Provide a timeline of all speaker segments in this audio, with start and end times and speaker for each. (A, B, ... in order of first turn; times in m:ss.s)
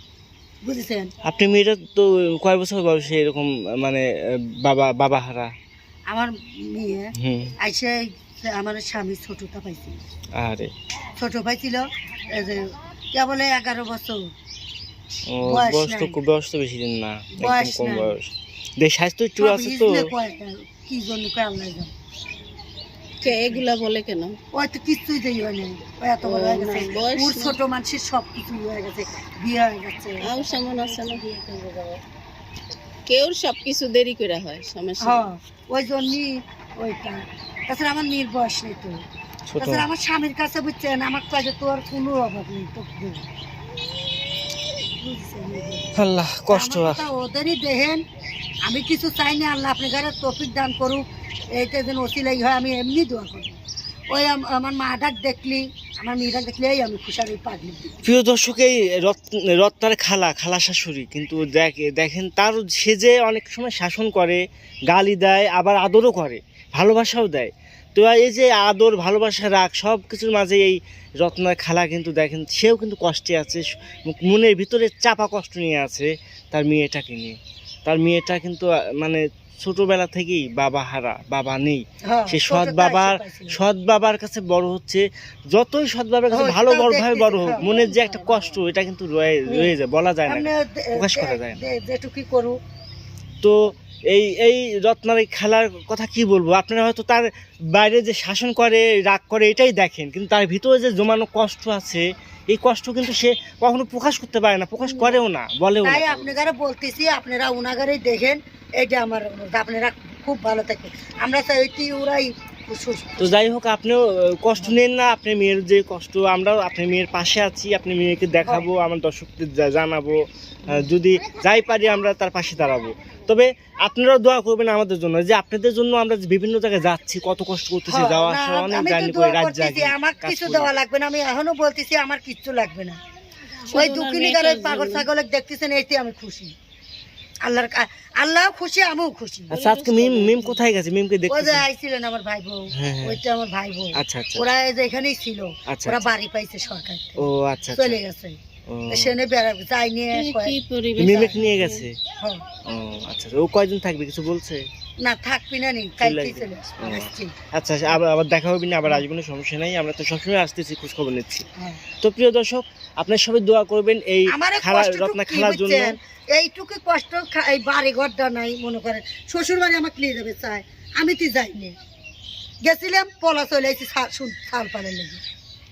0:00.6-0:01.1 A
0:01.2-0:04.0 B
0:04.6-0:05.5 B
0:06.1-0:10.0 A
0:07.2-0:07.5 B
0:10.4-0:10.7 B
0:11.2-0:14.2 A
0:15.3-0:20.1 B
0:15.4-0:16.2 A
0:17.4-0:18.1 A
0:19.4-0:21.9 A
0:23.2-0:24.4 C
0:23.2-0:23.6 A
0:24.5-0:32.0 A
0:26.2-0:27.6 C
0:30.2-0:31.2 C
0:33.1-0:35.3 C
0:35.0-0:39.0 A
0:39.5-0:39.8 B
0:39.6-0:43.2 A
0:45.0-0:46.0 A
0:46.0-0:47.0 B
0:46.5-0:48.0 A
0:48.6-0:51.0 A
0:51.6-0:53.6 A
0:54.1-0:58.0 A
0:58.0-1:31.6 B
1:22.1-1:23.6 A
1:26.3-1:28.4 A
1:30.3-1:32.6 A
1:33.4-1:46.4 B
1:44.8-1:45.2 A
1:45.8-1:53.4 A
1:53.2-2:10.7 B
2:07.9-2:13.0 A
2:13.6-2:15.1 C
2:13.7-2:16.5 A
2:17.4-2:19.6 A
2:19.5-2:21.6 B
2:19.5-2:20.5 C
2:21.3-2:28.4 A
2:22.8-2:23.2 B
2:24.0-2:24.4 B
2:25.7-2:26.1 B
2:27.2-2:28.0 B
2:28.7-2:29.1 B
2:28.9-2:30.6 A
2:30.1-2:31.9 C
2:31.0-2:31.9 B
2:32.7-2:34.6 B
2:35.0-2:37.3 A
2:36.0-2:41.5 B
2:42.0-2:46.0 B
2:44.3-2:51.8 A
2:52.6-2:55.2 A